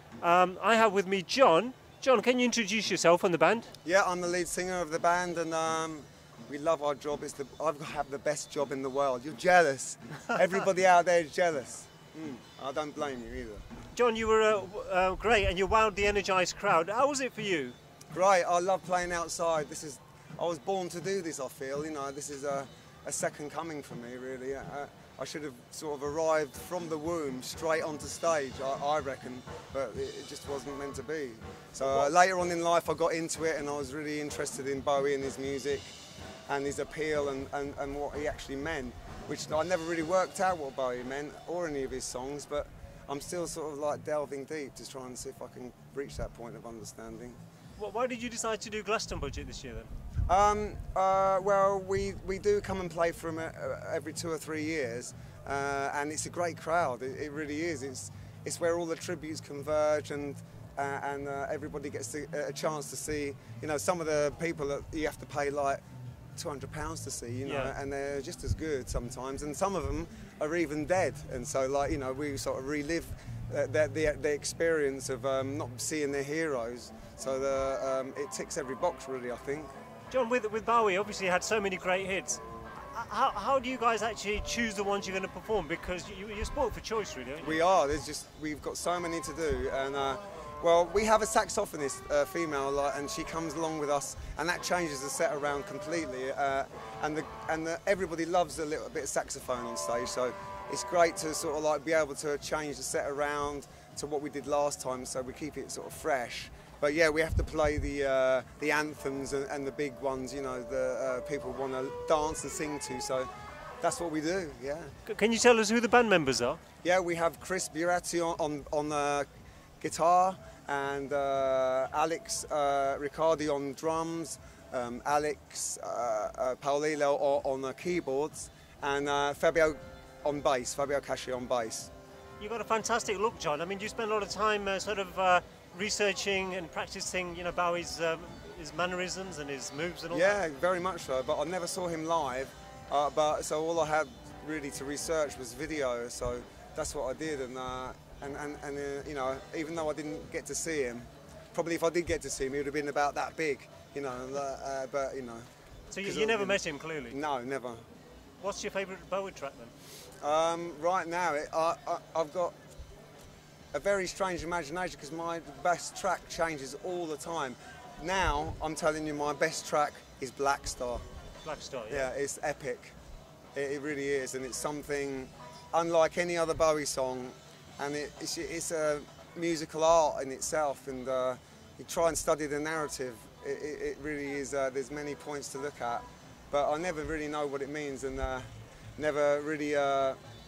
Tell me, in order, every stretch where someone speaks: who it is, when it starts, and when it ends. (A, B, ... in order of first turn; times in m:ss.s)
0:00.2-0:03.7 A
0:03.8-0:13.6 B
0:13.9-0:17.8 A
0:18.1-0:35.9 B
0:31.8-0:32.1 A
0:36.5-0:47.4 B
0:47.8-0:49.9 A
0:50.3-1:05.8 B
1:06.4-1:19.7 B
1:07.4-1:07.7 A
1:20.1-1:27.6 A
1:27.4-1:53.3 B
1:53.8-1:54.9 B
1:55.0-1:56.6 A
1:56.8-1:59.2 B
1:59.8-2:11.9 B
2:12.4-2:20.4 A
2:20.1-2:35.4 B
2:35.9-2:37.2 A
2:36.0-2:37.8 B
2:38.4-2:39.7 A
2:40.2-2:42.5 B
2:43.7-2:51.0 B
2:51.4-2:52.1 A
2:51.9-2:52.9 B
2:53.5-3:10.2 B